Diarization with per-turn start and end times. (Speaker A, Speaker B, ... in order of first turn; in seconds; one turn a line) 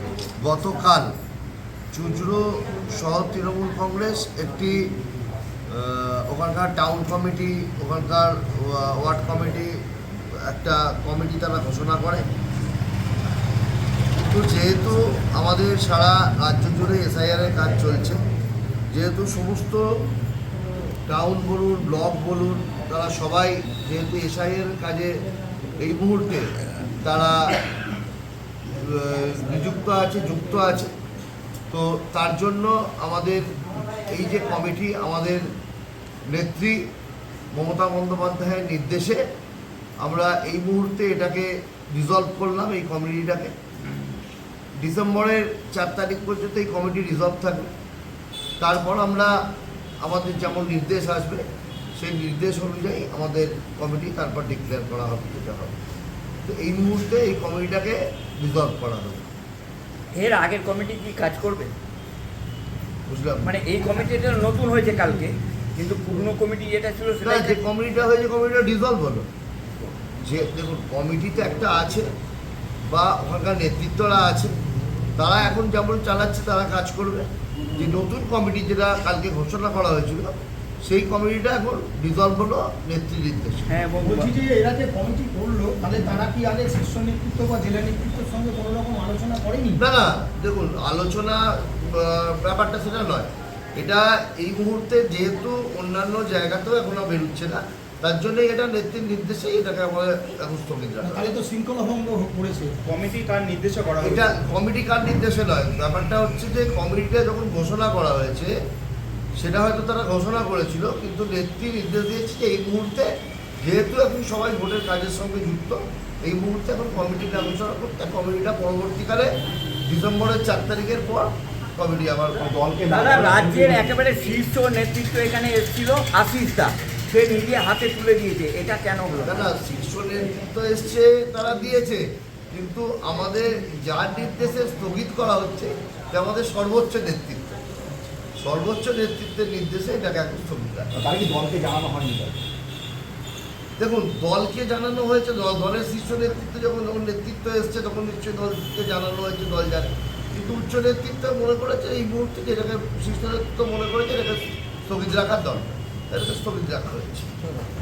Speaker A: 0.4-1.1
Speaker A: 1.9-4.9
Speaker A: 5.7-9.7
Speaker A: 10.4-12.3
Speaker A: 14.3-18.2
Speaker A: 18.9-19.9
Speaker A: 21.1-25.2
Speaker A: 25.8-27.6
Speaker A: 28.7-30.9
Speaker A: 31.7-33.5
Speaker A: 34.1-35.5
Speaker A: 36.3-36.8
Speaker A: 37.5-39.2
Speaker A: 40.0-43.5
Speaker A: 44.8-47.7
Speaker A: 48.6-49.4
Speaker A: 50.0-51.5
Speaker A: 52.0-55.8
Speaker A: 56.5-59.3
Speaker B: 60.1-61.7
Speaker A: 63.1-63.5
Speaker B: 63.4-67.6
Speaker A: 67.2-69.2
Speaker A: 70.2-72.1
Speaker A: 72.9-74.5
Speaker A: 75.2-83.7
Speaker B: 83.7-84.3
Speaker C: 84.0-89.8
Speaker A: 89.8-101.3
Speaker C: 101.0-102.8
Speaker B: 102.8-104.3
Speaker A: 104.0-108.5
Speaker A: 109.4-122.5
Speaker D: 122.4-123.8
Speaker B: 122.9-129.5
Speaker A: 129.2-137.5
Speaker A: 138.4-140.9
Speaker D: 140.9-142.4
Speaker A: 143.8-157.3